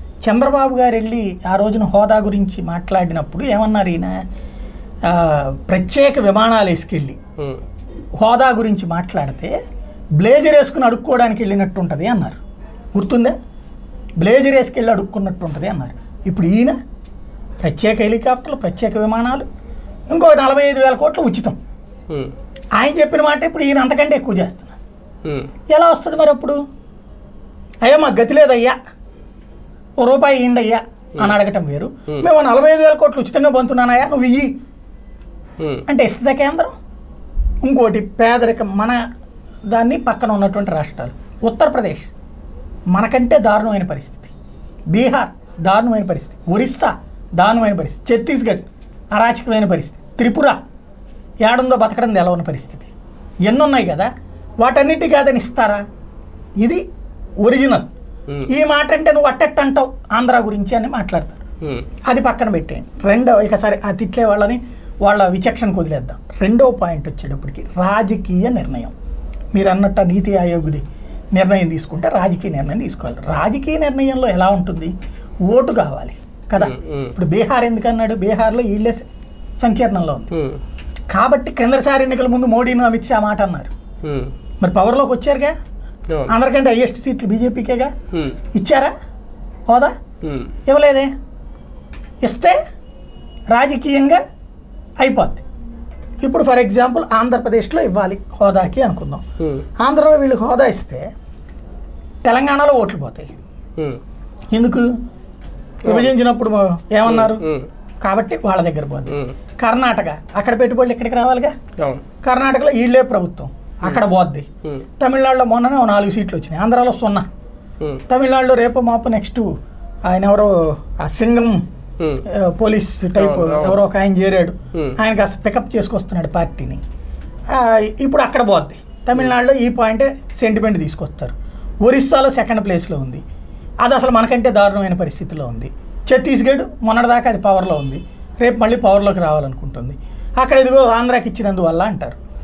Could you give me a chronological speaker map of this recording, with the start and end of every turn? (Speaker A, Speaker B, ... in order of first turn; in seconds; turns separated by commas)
Speaker A: 0.2-4.2, Speaker A: 5.0-7.2, Speaker A: 8.2-9.5, Speaker A: 10.2-12.4, Speaker A: 12.9-13.3, Speaker A: 14.2-16.8, Speaker A: 17.6-19.5, Speaker A: 20.1-21.6, Speaker A: 22.8-24.7, Speaker A: 25.7-26.6, Speaker A: 27.8-28.8, Speaker A: 30.0-34.5, Speaker A: 35.9-36.7, Speaker A: 37.6-39.0, Speaker A: 39.7-42.1, Speaker A: 42.9-44.3, Speaker A: 44.9-50.6, Speaker A: 51.4-52.9, Speaker A: 53.5-55.8, Speaker A: 57.4-57.9, Speaker A: 58.5-61.4, Speaker A: 62.1-68.9, Speaker A: 69.5-70.8, Speaker A: 71.3-74.9, Speaker A: 75.5-79.1, Speaker B: 76.6-77.1, Speaker A: 79.6-80.3, Speaker B: 80.3-80.6, Speaker A: 81.1-83.7, Speaker B: 84.0-84.3, Speaker A: 84.6-85.5, Speaker A: 86.2-87.9, Speaker A: 88.5-88.9, Speaker B: 90.2-90.5, Speaker A: 90.7-91.1, Speaker A: 92.2-92.6, Speaker A: 93.5-94.2, Speaker A: 95.0-95.4, Speaker A: 96.2-99.2, Speaker B: 99.4-99.6, Speaker A: 99.8-101.1, Speaker A: 102.2-103.3, Speaker A: 104.5-104.9, Speaker A: 105.8-107.5, Speaker B: 105.9-106.1, Speaker B: 107.0-107.7, Speaker A: 108.0-111.5, Speaker B: 111.8-112.0, Speaker A: 112.2-114.5, Speaker A: 115.0-117.2, Speaker A: 118.1-119.5, Speaker A: 120.0-121.6, Speaker B: 122.0-122.2, Speaker A: 122.2-126.8, Speaker B: 123.2-123.8, Speaker A: 127.5-133.2, Speaker A: 133.8-142.2